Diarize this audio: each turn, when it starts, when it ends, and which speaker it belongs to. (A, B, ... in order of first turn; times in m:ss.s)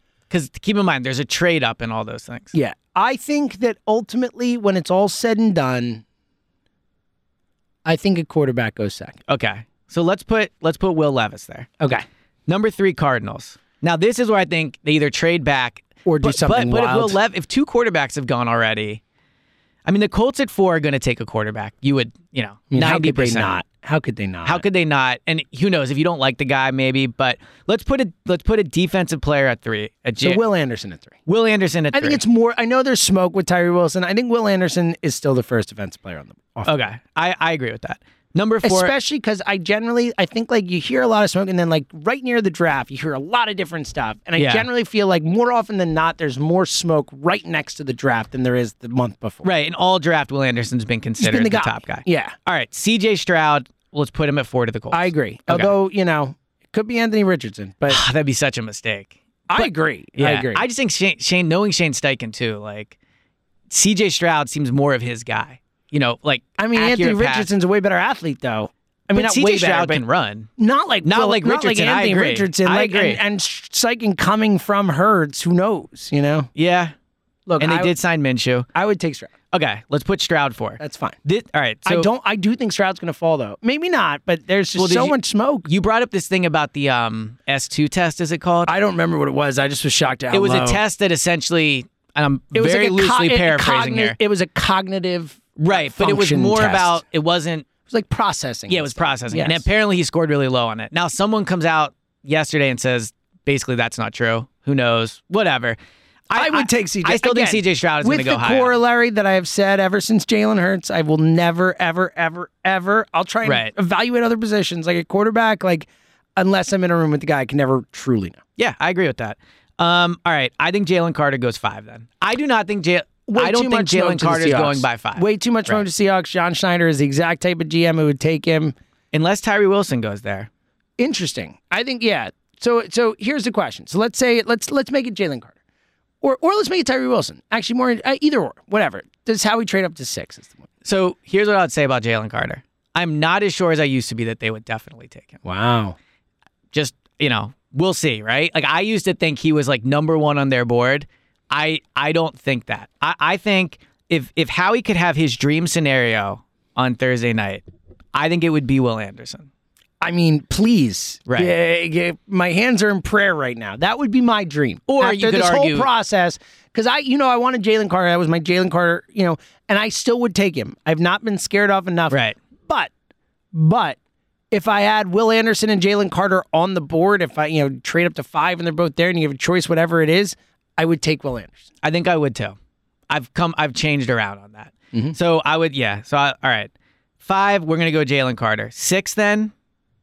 0:00.3-0:02.5 A
0:02.5-0:06.0 B
0:07.8-0:09.2 B
0:09.3-0:11.7 A
0:12.5-0:19.0 A
0:16.0-0:17.2 B
0:19.8-0:23.6 A
0:22.7-0:24.6 B
0:24.4-0:30.4 A
0:30.2-0:31.2 B
0:31.2-0:32.2 A
0:31.9-0:36.8 B
0:36.6-0:38.9 A
0:38.6-0:49.5 B
0:44.4-0:44.7 A
0:49.4-0:55.7 A
0:51.2-0:52.3 B
0:54.9-0:58.0 B
0:57.9-1:03.0 A
0:59.5-1:00.6 B
1:03.7-1:07.5 A
1:06.6-1:10.0 B
1:09.1-1:10.5 A
1:10.6-1:16.5 B
1:11.0-1:13.2 A
1:16.5-1:16.9 A
1:17.5-1:18.0 B
1:17.6-1:18.7 A
1:18.7-1:19.3 B
1:19.5-1:22.1 A
1:20.8-1:21.2 B
1:21.8-1:25.7 B
1:24.7-1:28.7 A
1:28.7-1:30.8 B
1:30.3-1:34.2 A
1:32.5-1:37.0 B
1:35.6-1:37.7 A
1:37.9-1:39.6 B
1:38.7-1:45.8 A
1:46.3-1:48.8 A
1:46.3-1:58.4 B
1:53.4-1:53.7 A
1:58.6-2:05.8 A
2:03.3-2:08.7 B
2:09.1-2:10.5 A
2:11.0-2:15.5 B
2:16.2-2:20.6 B
2:20.8-2:25.4 A
2:25.4-2:26.0 B
2:26.7-2:37.6 A
2:38.1-2:39.5 A
2:40.0-2:52.2 B
2:41.3-2:41.5 A
2:44.9-2:45.9 A
2:52.1-2:52.4 A
2:53.5-2:54.0 B
2:54.5-3:01.6 B
3:01.8-3:02.6 A
3:03.1-3:06.7 A
3:07.2-3:09.5 A